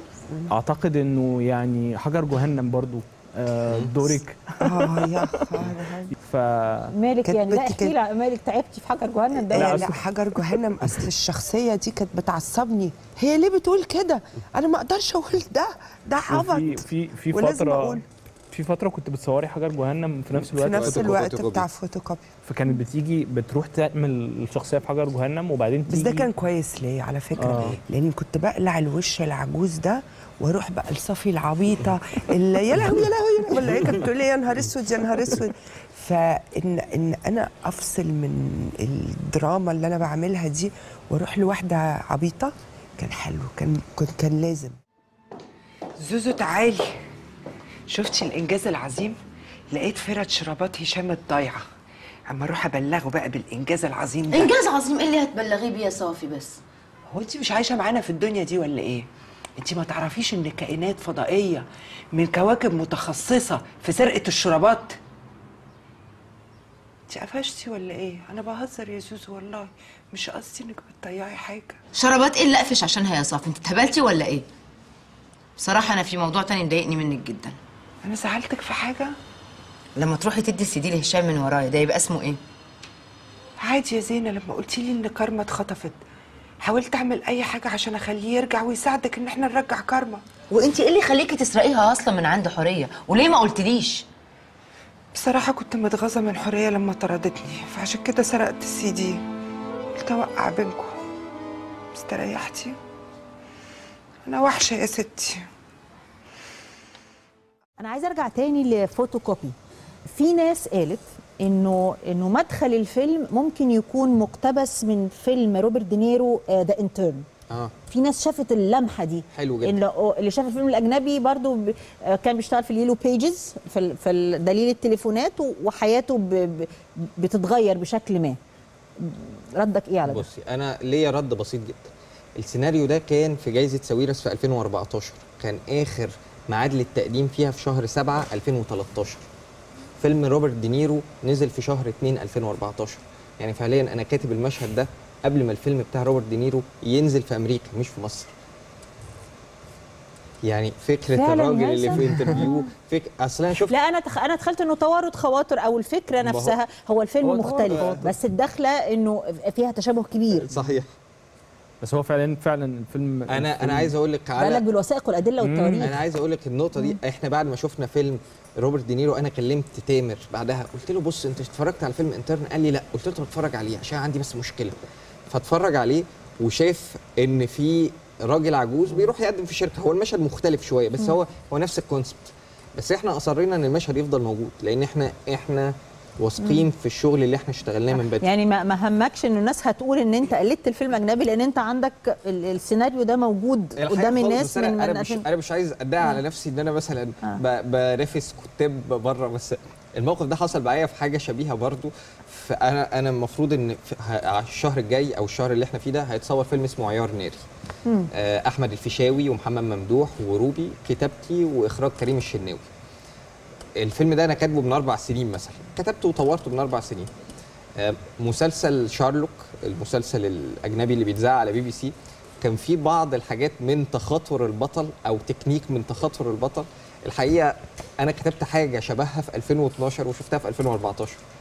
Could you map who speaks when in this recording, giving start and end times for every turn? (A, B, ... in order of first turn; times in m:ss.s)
0:00.5-0:05.6 A
0:04.6-0:06.1 B
0:06.2-0:06.9 A
0:06.9-0:09.9 C
0:07.2-0:07.9 B
0:09.3-0:18.0 B
0:09.5-0:10.1 A
0:16.3-0:21.1 A
0:20.3-0:22.3 B
0:20.7-0:21.6 D
0:22.4-0:26.3 A
0:25.9-0:44.8 B
0:27.3-0:27.8 A
0:46.0-0:46.9 B
0:47.9-0:49.2 B
0:49.7-0:51.7 B
0:52.3-0:54.5 B
0:54.3-0:56.6 E
0:57.1-0:59.1 B
0:59.6-1:05.0 B
1:07.1-1:11.8 B
1:11.9-1:14.4 E
1:15.6-1:17.6 E
1:18.0-1:19.1 B
1:20.0-1:22.4 E
1:23.6-1:26.0 B
1:26.6-1:30.2 B
1:30.5-1:34.1 E
1:35.1-1:39.2 B
1:40.0-1:40.9 B
1:41.9-1:42.8 B
1:44.2-1:45.4 B
1:47.8-1:49.6 C
1:50.1-1:57.2 C
1:57.5-1:57.7 D
1:57.8-2:08.4 C
1:59.3-1:59.8 D
2:09.0-2:10.2 C
2:10.0-2:19.2 D
2:20.0-2:28.3 D
2:30.4-2:33.7 D
2:31.1-2:32.7 C
2:33.7-2:40.5 C
2:36.2-2:36.6 D
2:37.2-2:38.1 A
2:37.5-2:38.0 D
2:40.4-2:40.9 D
2:41.8-2:44.0 A
2:43.3-2:44.6 D
2:44.4-2:46.0 C
2:45.4-2:45.9 A
2:45.8-2:54.8 D
2:55.3-3:08.3 D
3:06.4-3:06.7 C
3:08.0-3:15.2 C
3:13.8-3:27.4 D
3:28.1-3:32.7 D
3:33.8-3:37.1 D
3:37.8-3:51.2 D